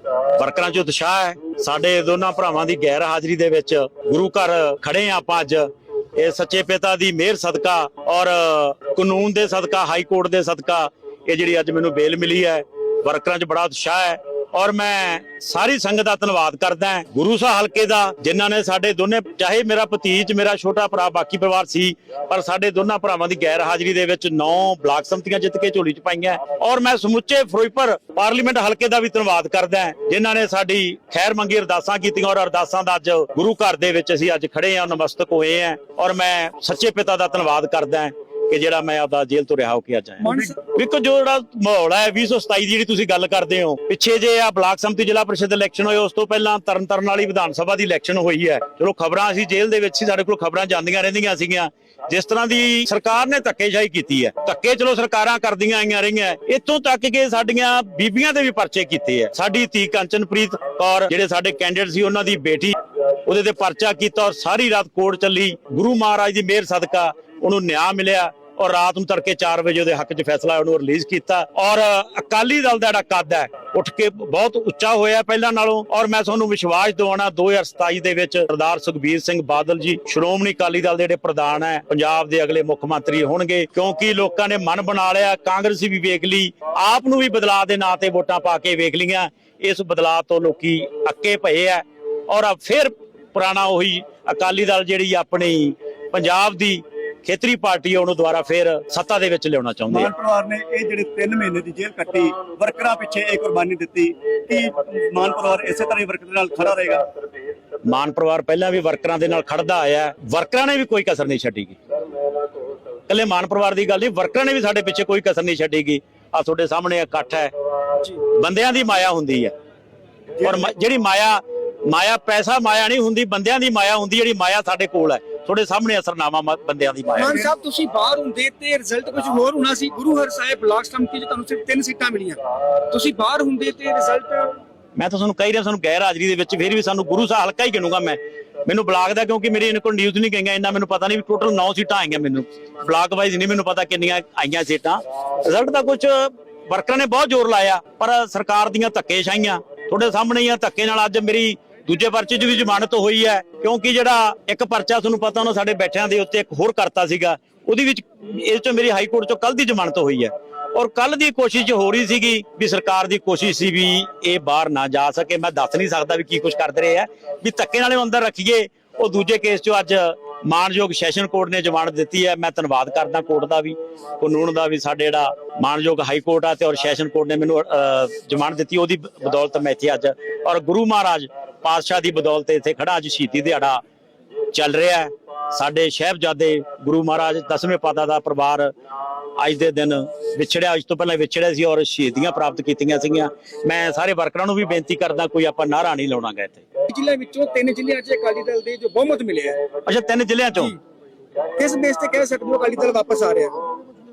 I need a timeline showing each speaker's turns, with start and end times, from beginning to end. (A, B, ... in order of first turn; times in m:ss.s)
0:00.3-1:40.1 A
0:40.2-0:40.5 B
1:39.9-1:47.1 C
1:47.8-1:51.8 A
1:53.1-1:57.5 A
1:58.1-1:59.5 A
2:00.4-2:07.5 A
2:07.2-2:14.6 B
2:15.0-3:03.8 A
3:04.5-3:08.7 A
3:09.4-3:16.6 A
3:16.9-3:19.6 B
3:19.8-3:20.7 A
3:21.6-3:23.5 B